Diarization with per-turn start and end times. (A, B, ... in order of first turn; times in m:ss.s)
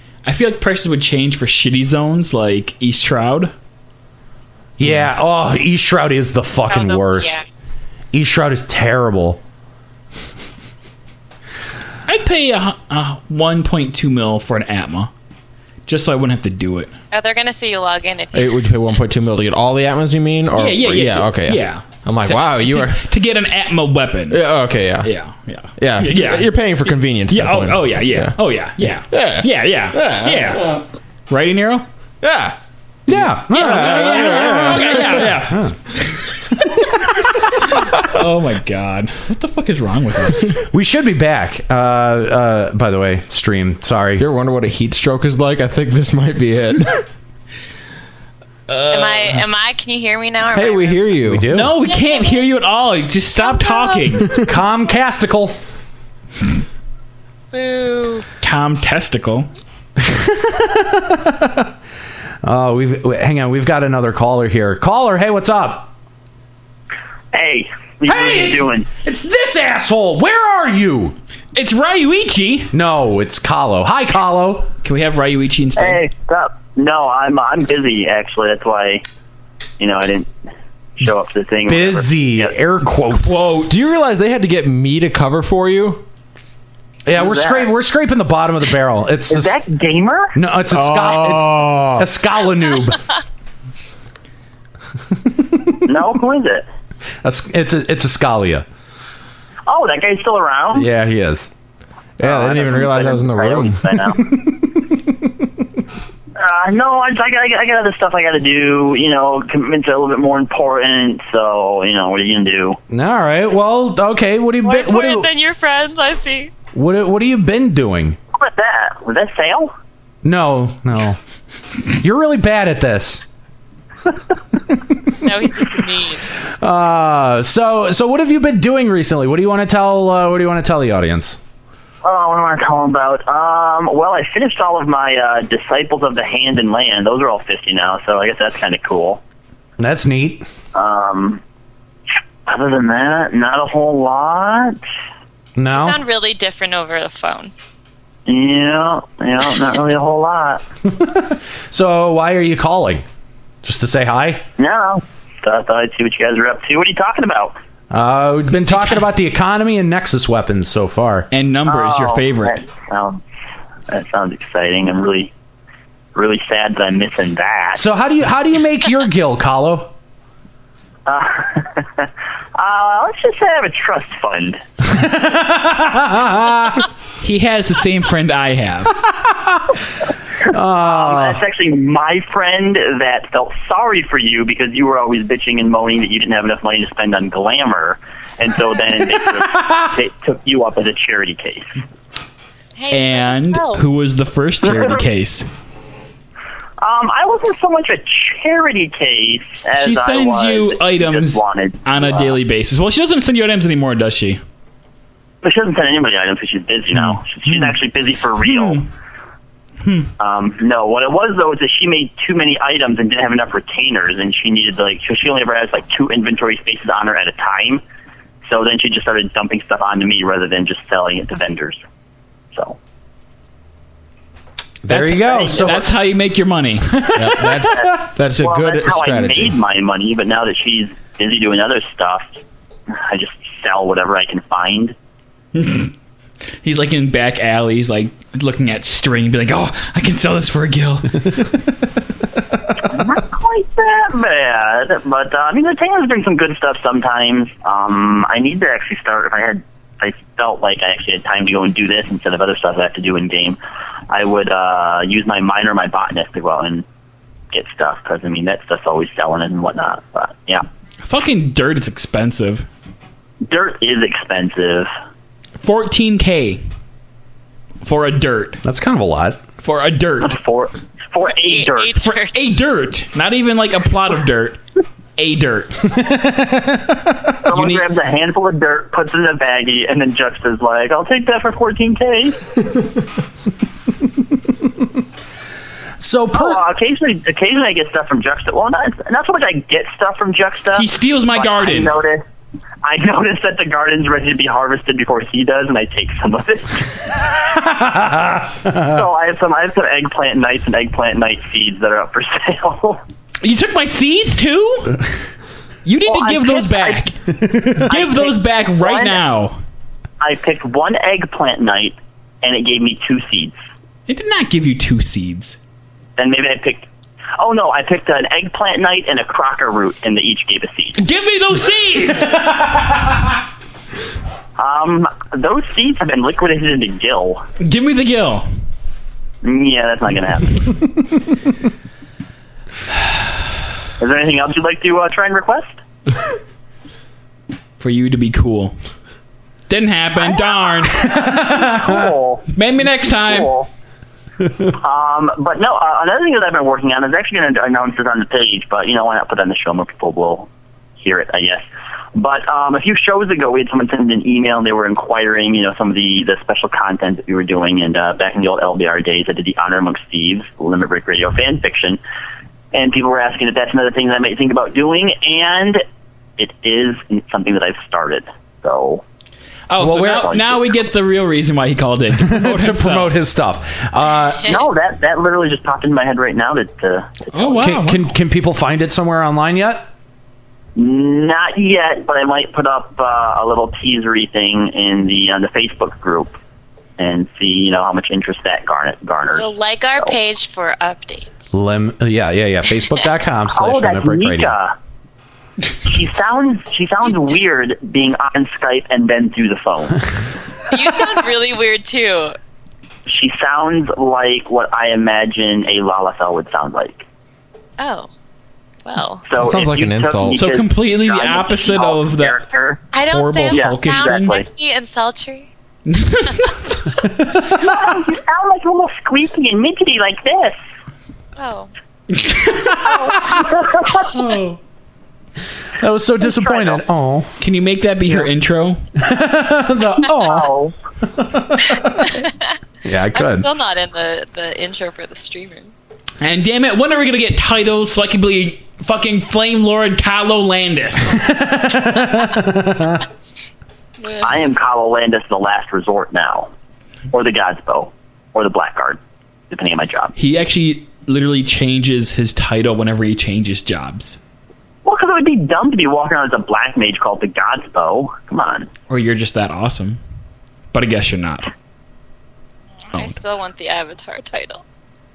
0:00.2-0:03.5 A
0:04.8-0:07.4 B
0:06.7-0:07.4 C
0:08.1-0:09.4 B
0:12.1-0:15.1 A
0:15.9-0:16.9 A
0:17.1-0:18.7 C
0:18.3-0:23.1 D
0:20.5-0:24.4 A
0:24.3-0:25.1 D
0:25.0-0:31.9 A
0:25.8-0:28.4 D
0:29.1-0:30.8 D
0:32.2-0:32.6 D
0:33.1-0:35.8 B
0:33.1-0:35.4 D
0:33.5-0:36.9 A
0:37.6-0:40.6 A
0:40.7-0:44.2 B
0:44.2-0:47.1 D
0:48.7-0:49.4 A
0:48.9-0:51.1 C
0:50.5-0:51.5 D
0:51.2-0:51.7 B
0:51.5-0:54.3 A
0:51.8-0:52.4 C
0:53.4-0:54.3 C
0:54.4-0:55.6 B
0:57.5-0:58.3 C
0:58.4-0:59.5 A
1:00.0-1:01.7 B
1:02.4-1:05.9 B
1:07.3-1:08.9 E
1:08.1-1:11.2 B
1:11.6-1:12.7 A
1:12.7-1:14.7 B
1:14.8-1:16.0 A
1:15.8-1:19.0 E
1:19.8-1:20.3 E
1:21.0-1:22.5 E
1:21.7-1:23.6 B
1:23.2-1:23.8 A
1:23.6-1:26.0 D
1:27.0-1:29.5 B
1:27.1-1:27.7 E
1:29.3-1:30.4 E
1:30.4-1:33.0 B
1:30.7-1:32.1 D
1:35.9-1:36.7 E
1:37.2-1:38.7 B
1:39.7-1:40.9 E
1:40.7-1:41.5 B
1:42.2-1:43.9 D
1:42.2-1:44.4 E
1:44.3-1:45.4 B
1:46.4-1:52.8 E
1:52.9-1:55.3 B
1:54.6-1:56.5 C
1:56.7-1:58.2 B
1:58.4-1:59.7 E
2:00.2-2:01.2 B
2:01.9-2:03.2 B
2:05.2-2:06.3 C
2:06.6-2:11.4 B
2:12.0-2:19.2 E
2:19.8-2:20.5 B
2:20.7-2:21.4 E
2:22.5-2:24.8 E
2:25.6-2:26.0 B
2:25.7-2:27.5 C
2:28.3-2:30.6 E
2:30.8-2:33.0 B
2:33.6-2:34.4 B
2:34.6-2:37.6 E
2:37.9-2:41.3 B
2:41.3-2:42.6 A
2:41.7-2:43.2 E
2:43.9-2:45.3 E
2:46.2-2:47.8 E
2:47.8-2:49.9 B
2:51.1-2:54.6 E
2:54.8-2:56.9 B
2:57.2-2:59.0 A
2:59.1-2:59.8 B
3:00.5-3:01.4 B
3:00.8-3:11.8 E
3:09.2-3:09.8 B
3:12.8-3:13.8 C
3:12.9-3:15.5 A
3:14.7-3:15.0 E
3:16.8-3:22.4 E
3:19.8-3:24.4 A
3:25.4-3:28.8 E
3:26.9-3:27.8 A
3:28.4-3:28.9 A
3:29.8-3:30.1 A
3:30.2-3:37.8 E
3:38.4-3:41.8 E
3:42.5-3:42.8 E
3:44.8-3:45.9 B
3:44.9-3:47.1 A
3:47.1-3:48.1 B
3:47.1-3:49.6 D
3:47.7-3:52.4 E
3:52.9-3:55.0 E
3:55.6-3:55.9 A
3:56.6-4:01.6 A
4:02.9-4:13.6 E
4:14.1-4:16.8 E
4:17.5-4:20.7 E
4:21.0-4:22.7 A
4:23.4-4:24.9 E
4:25.6-4:26.6 A
4:27.8-4:28.6 A
4:28.6-4:29.4 B
4:29.6-4:30.4 A
4:30.2-4:32.0 E
4:31.3-4:32.4 C
4:32.0-4:34.6 A
4:35.2-4:35.9 A
4:35.9-4:37.3 B
4:37.4-4:42.4 E
4:37.5-4:37.9 A
4:46.0-4:46.6 B
4:46.3-4:52.2 E
4:50.7-4:52.0 A
4:52.8-4:56.9 E
4:57.5-4:59.0 B
4:58.8-5:03.0 E
5:03.4-5:05.1 A
5:05.8-5:09.6 A
5:06.0-5:07.1 E
5:07.5-5:07.8 B
5:07.8-5:09.2 E
5:10.2-5:13.6 E
5:14.1-5:15.6 A
5:16.2-5:21.0 E
5:21.0-5:22.5 A
5:24.6-5:27.4 E
5:27.6-5:28.5 A
5:29.4-5:30.7 E
5:34.0-5:35.8 E
5:37.8-5:38.8 A
5:39.7-5:41.1 A
5:40.9-5:42.1 B
5:41.1-5:42.4 E
5:42.5-5:43.6 A
5:43.2-5:43.7 E
5:44.7-5:51.6 E
5:52.2-6:02.0 E
6:02.7-6:05.8 E
6:06.4-6:09.0 E
6:09.7-6:13.2 A
6:09.8-6:10.4 B
6:10.1-6:10.6 E
6:12.2-6:14.6 B
6:14.5-6:17.6 E
6:17.3-6:18.1 A
6:17.6-6:19.9 B
6:20.8-6:26.4 E
6:27.0-6:29.5 E
6:29.3-6:31.5 C
6:31.5-6:34.6 B
6:33.5-6:34.8 E
6:35.8-6:40.1 E
6:40.7-6:42.4 C
6:43.1-6:47.0 E
6:47.8-6:48.1 C
6:48.8-6:49.2 C
6:49.3-6:52.8 E
6:49.4-6:50.5 D
6:50.4-6:52.4 A
6:52.9-6:55.5 C
6:53.1-6:54.4 A
6:53.5-6:54.4 E
6:55.9-6:56.9 A
6:57.5-7:00.6 E
7:01.4-7:01.7 C
7:02.1-7:02.8 A
7:02.8-7:04.1 E
7:03.0-7:03.4 B
7:04.1-7:04.6 B
7:05.8-7:07.3 B
7:06.2-7:06.8 E
7:07.4-7:08.8 A
7:09.0-7:10.5 B
7:10.2-7:10.8 E
7:11.1-7:12.2 B
7:12.0-7:12.5 C
7:12.8-7:13.5 B
7:13.1-7:15.7 C
7:16.2-7:21.2 A
7:21.2-7:23.1 B
7:24.0-7:24.3 C
7:24.2-7:26.5 E
7:27.1-7:30.1 E
7:30.2-7:34.2 A
7:34.8-7:38.7 E
7:38.9-7:40.0 A
7:40.7-7:41.5 A
7:42.9-7:44.6 C